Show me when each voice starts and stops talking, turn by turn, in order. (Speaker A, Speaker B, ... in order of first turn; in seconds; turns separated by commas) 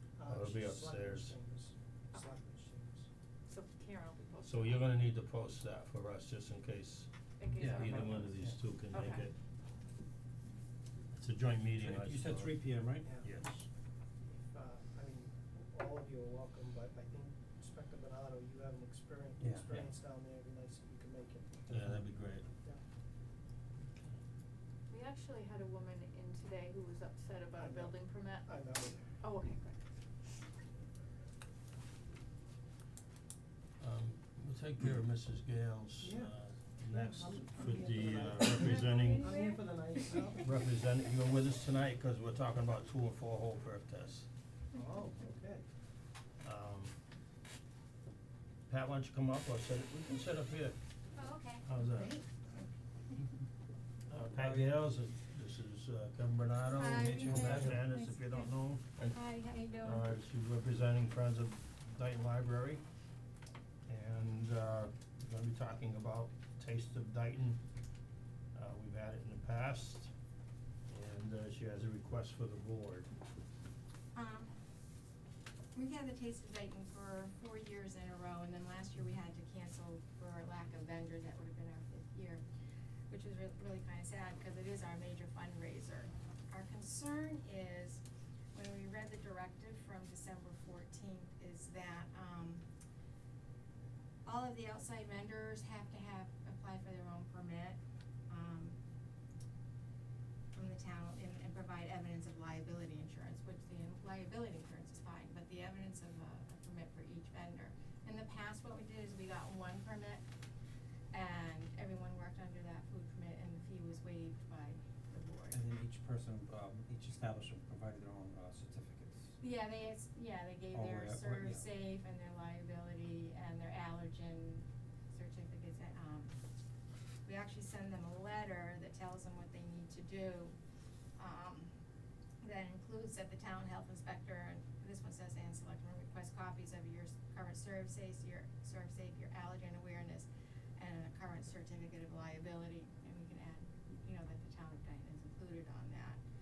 Speaker A: 0.2-3.1, Speaker B: 0.2-1.3, Speaker C: 3.5-5.0, Speaker B: 4.4-7.1, Speaker C: 7.4-8.2, Speaker D: 7.5-8.6, Speaker B: 7.6-9.3, Speaker C: 8.9-9.3, Speaker B: 11.1-12.6, Speaker D: 11.8-13.1, Speaker A: 13.1-13.4, Speaker B: 13.2-13.7, Speaker A: 14.5-21.6, Speaker D: 19.4-19.9, Speaker D: 21.7-22.0, Speaker B: 21.7-22.4, Speaker B: 23.9-24.1, Speaker C: 24.9-28.5, Speaker A: 27.6-29.1, Speaker C: 29.2-29.8, Speaker B: 33.8-39.4, Speaker A: 36.0-40.5, Speaker E: 38.7-39.6, Speaker B: 40.3-44.3, Speaker A: 44.7-45.6, Speaker B: 46.4-47.0, Speaker B: 48.7-50.8, Speaker E: 51.1-52.2, Speaker B: 51.6-52.2, Speaker B: 54.1-59.2, Speaker D: 54.4-54.8, Speaker E: 56.7-58.5, Speaker D: 57.0-57.9, Speaker E: 59.1-60.1, Speaker B: 59.8-62.8, Speaker B: 63.9-67.6, Speaker B: 68.5-70.1, Speaker B: 70.9-73.1, Speaker E: 74.1-74.5, Speaker E: 75.7-82.4, Speaker E: 83.1-88.0, Speaker E: 88.5-92.6, Speaker E: 94.2-98.8, Speaker E: 100.5-110.2, Speaker E: 111.1-115.6, Speaker D: 115.5-119.3, Speaker E: 119.4-126.4, Speaker D: 120.7-121.6, Speaker E: 127.2-130.5, Speaker E: 131.2-131.7, Speaker E: 132.4-146.2